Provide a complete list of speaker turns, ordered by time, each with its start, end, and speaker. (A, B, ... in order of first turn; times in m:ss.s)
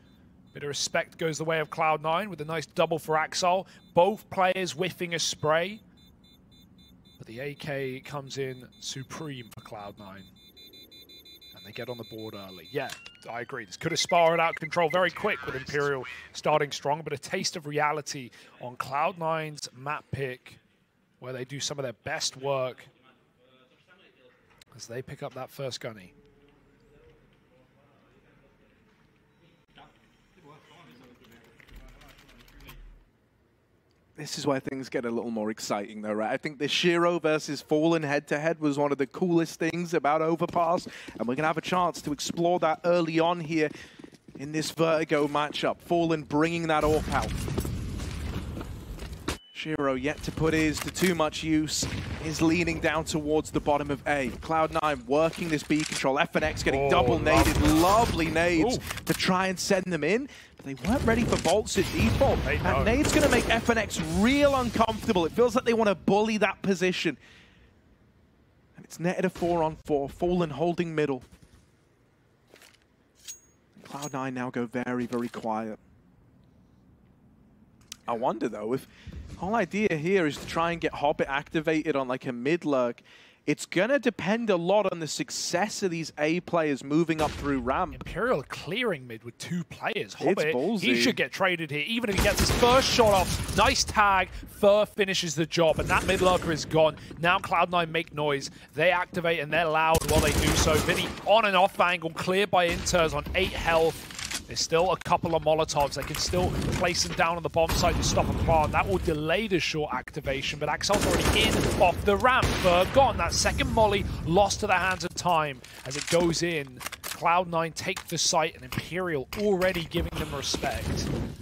0:00.5-0:05.8 A
0:07.2-0:10.3 A
0:11.5-0:20.6 A
0:21.2-0:22.9 A
0:24.7-0:26.1 A
0:34.2-0:43.7 B
0:44.4-0:47.4 B
0:49.5-1:07.2 B
0:56.7-0:58.9 A
1:02.4-1:03.1 A
1:08.8-1:11.3 B
1:13.8-1:15.8 B
1:18.1-1:28.0 B
1:27.9-2:01.1 A
1:30.2-1:31.2 B